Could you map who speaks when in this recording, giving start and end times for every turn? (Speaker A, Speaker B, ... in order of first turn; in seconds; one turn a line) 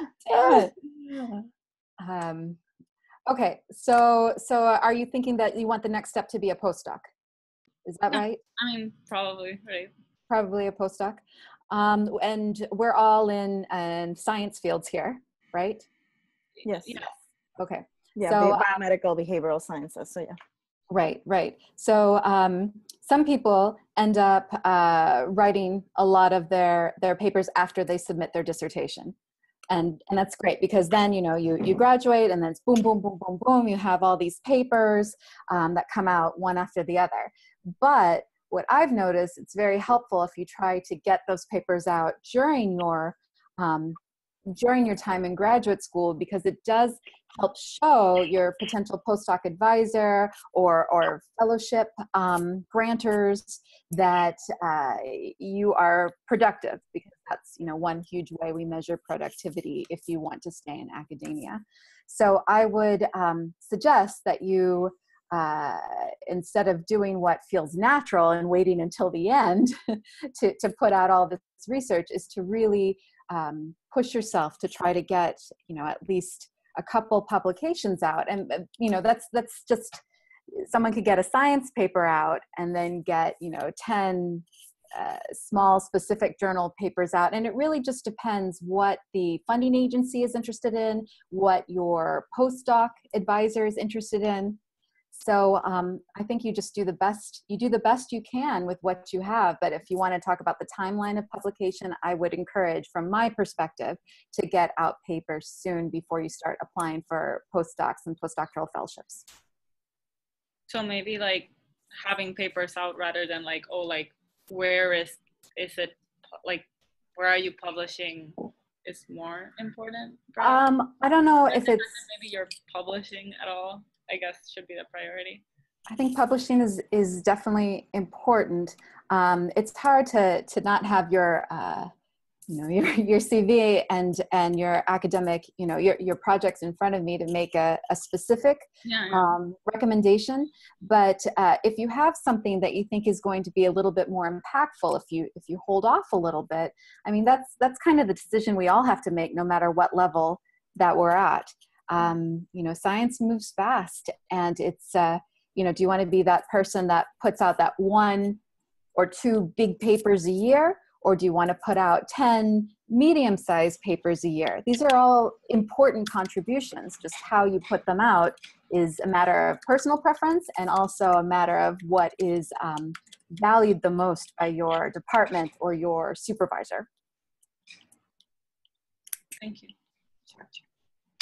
Speaker A: 0.2-1.4
Speaker B: 0.3-0.7
Speaker A: 2.0-2.6
Speaker A: 3.3-7.1
Speaker A: 7.9-8.4
Speaker C: 8.1-9.9
Speaker A: 10.3-15.9
Speaker C: 16.6-17.1
Speaker B: 16.6-17.0
Speaker A: 17.6-18.6
Speaker B: 18.2-20.4
Speaker A: 20.9-29.1
Speaker A: 29.7-44.0
Speaker A: 44.5-80.0
Speaker A: 80.5-94.6
Speaker A: 95.1-109.2
Speaker C: 110.7-120.6
Speaker A: 120.4-121.9
Speaker C: 121.5-125.4
Speaker A: 125.9-131.9
Speaker A: 132.5-158.4
Speaker C: 138.8-139.3
Speaker A: 159.0-176.9
Speaker C: 179.4-179.7